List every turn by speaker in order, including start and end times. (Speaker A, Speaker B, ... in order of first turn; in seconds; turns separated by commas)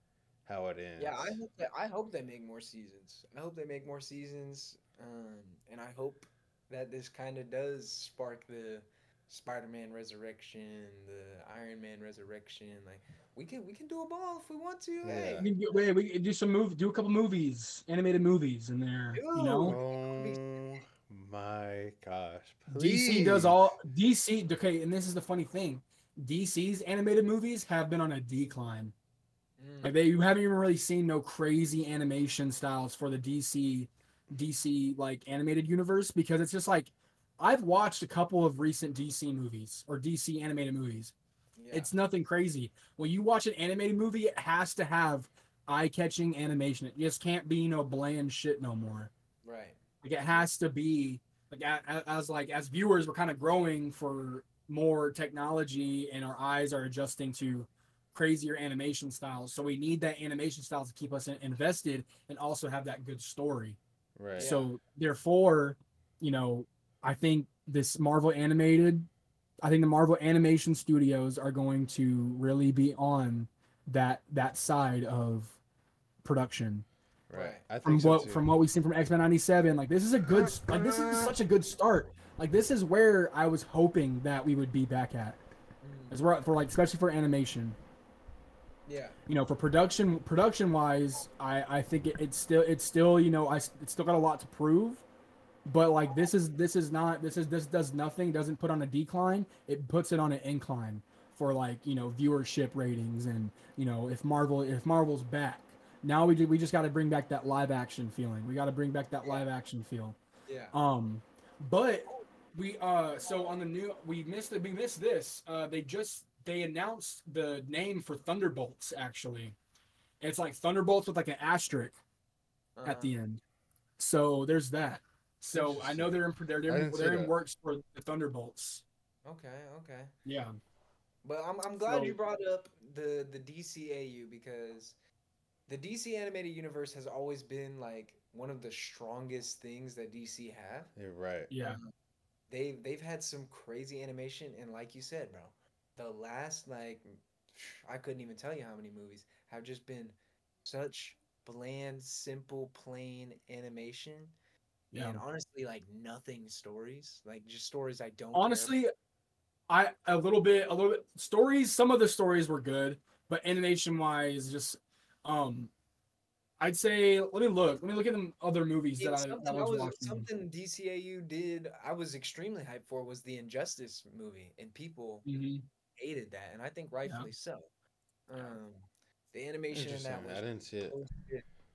Speaker A: 0.5-1.4, Speaker B: 1.0-15.8, Speaker A: 15.0-15.5, Speaker C: 15.4-19.8, Speaker B: 19.1-20.8, Speaker A: 19.6-23.6, Speaker C: 22.7-28.9, Speaker B: 29.6-29.9, Speaker C: 29.8-41.1, Speaker B: 41.5-41.9, Speaker C: 41.7-49.1, Speaker B: 49.4-50.5, Speaker C: 50.0-63.8, Speaker A: 64.2-64.5, Speaker B: 64.3-64.7, Speaker C: 64.4-69.1, Speaker C: 69.6-75.6, Speaker C: 76.2-76.8, Speaker A: 77.3-78.4, Speaker B: 77.3-77.6, Speaker C: 77.8-85.4, Speaker A: 80.4-81.3, Speaker B: 85.8-86.2, Speaker C: 86.1-87.8, Speaker B: 88.8-89.2, Speaker C: 89.3-95.0, Speaker C: 95.7-110.2, Speaker B: 110.5-110.7, Speaker C: 110.7-119.5, Speaker C: 120.2-122.0, Speaker B: 122.8-123.2, Speaker C: 122.8-123.4, Speaker C: 124.0-128.8, Speaker A: 125.6-126.1, Speaker A: 126.7-127.3, Speaker B: 129.2-130.1, Speaker C: 130.2-130.6, Speaker B: 131.2-134.9, Speaker C: 131.9-132.2, Speaker B: 135.7-140.9, Speaker A: 140.9-141.5, Speaker C: 141.5-141.8, Speaker B: 141.6-141.9, Speaker B: 142.5-154.3, Speaker C: 154.9-155.2, Speaker B: 154.9-158.8, Speaker C: 158.3-158.9, Speaker C: 159.7-165.7, Speaker C: 166.6-170.3, Speaker B: 169.0-175.2, Speaker C: 175.2-175.7, Speaker B: 176.0-177.7, Speaker B: 178.3-181.5, Speaker A: 179.7-181.0